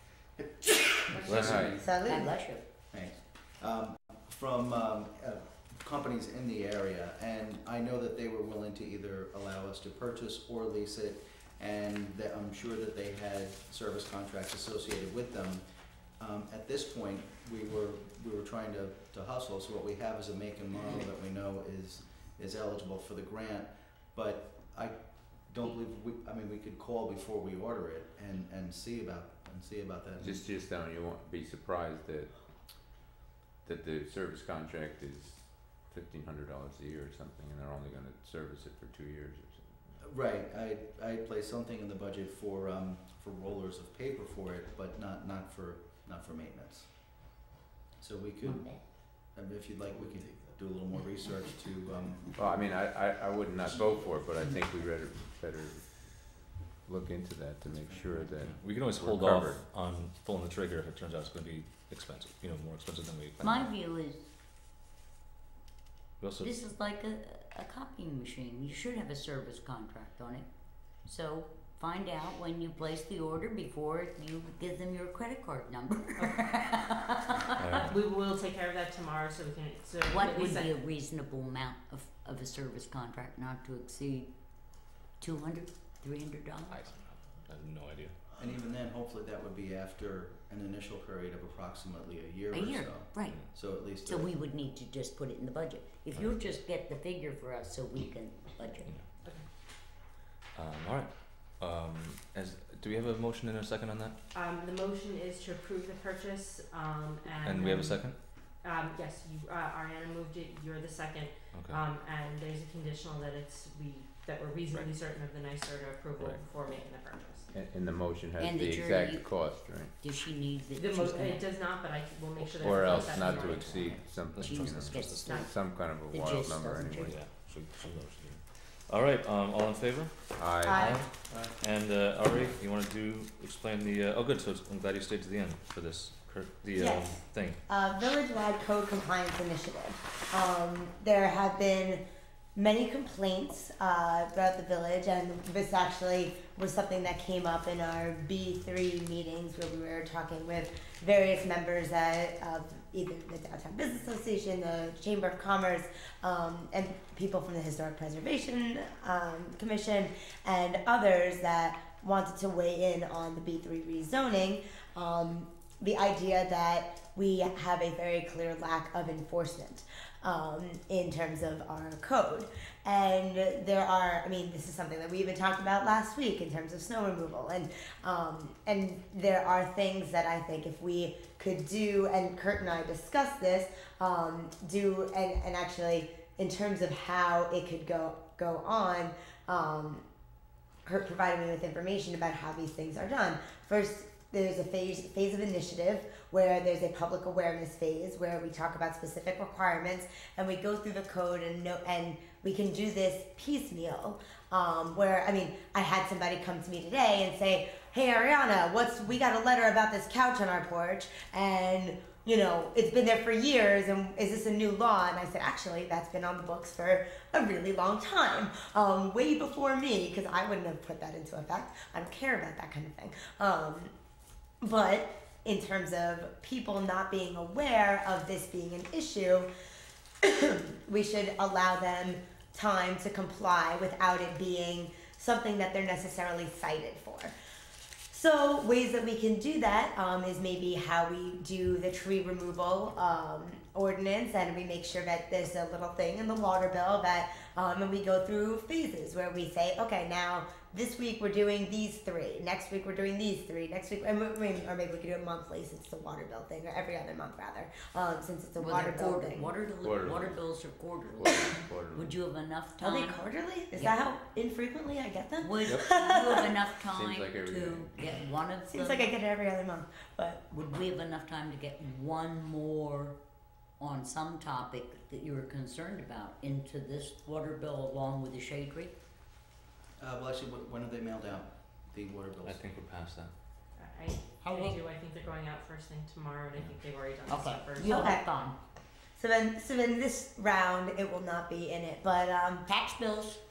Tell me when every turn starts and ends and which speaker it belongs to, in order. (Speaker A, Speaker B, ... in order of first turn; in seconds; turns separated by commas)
Speaker A: 0.4-1.9, Speaker B: 1.1-1.5, Speaker C: 1.3-1.6, Speaker D: 1.3-1.8, Speaker E: 1.8-2.3, Speaker F: 2.0-2.6, Speaker A: 2.9-15.6, Speaker A: 16.2-30.4, Speaker D: 30.2-32.3, Speaker D: 33.6-39.8, Speaker A: 40.0-47.2, Speaker A: 48.0-52.3, Speaker D: 52.4-59.6, Speaker C: 58.4-63.7, Speaker F: 63.4-64.3, Speaker C: 66.2-66.5, Speaker F: 66.4-77.8, Speaker B: 76.2-76.5, Speaker C: 77.6-78.0, Speaker B: 77.8-80.8, Speaker F: 80.0-86.8, Speaker C: 86.7-88.2, Speaker A: 88.4-94.4, Speaker F: 92.5-98.9, Speaker C: 98.9-99.1, Speaker C: 100.5-104.2, Speaker B: 104.3-117.5, Speaker C: 107.4-108.2, Speaker C: 111.5-111.8, Speaker C: 114.7-115.0, Speaker D: 117.5-119.9, Speaker F: 118.4-119.4, Speaker F: 120.0-121.5, Speaker B: 120.8-124.0, Speaker D: 122.4-127.2, Speaker C: 124.3-125.3, Speaker F: 124.3-125.5, Speaker B: 125.2-125.5, Speaker F: 126.1-127.2, Speaker C: 127.1-137.6, Speaker D: 130.4-130.8, Speaker E: 130.6-131.0, Speaker E: 136.8-142.0, Speaker E: 142.6-190.0, Speaker E: 190.9-223.9, Speaker E: 224.6-229.5, Speaker E: 230.2-237.3, Speaker E: 238.1-259.5, Speaker F: 258.6-263.2, Speaker D: 259.8-260.4, Speaker D: 261.2-262.1, Speaker E: 262.8-266.5, Speaker F: 263.8-264.0, Speaker F: 265.4-269.1, Speaker D: 266.9-268.2, Speaker E: 268.7-270.5, Speaker F: 270.5-273.2, Speaker F: 273.8-278.9, Speaker A: 280.0-282.6, Speaker C: 282.4-283.3, Speaker B: 283.8-288.2, Speaker F: 284.4-284.8, Speaker C: 286.5-286.9, Speaker F: 287.3-288.6, Speaker E: 287.8-288.3, Speaker E: 289.2-292.7, Speaker F: 292.7-293.4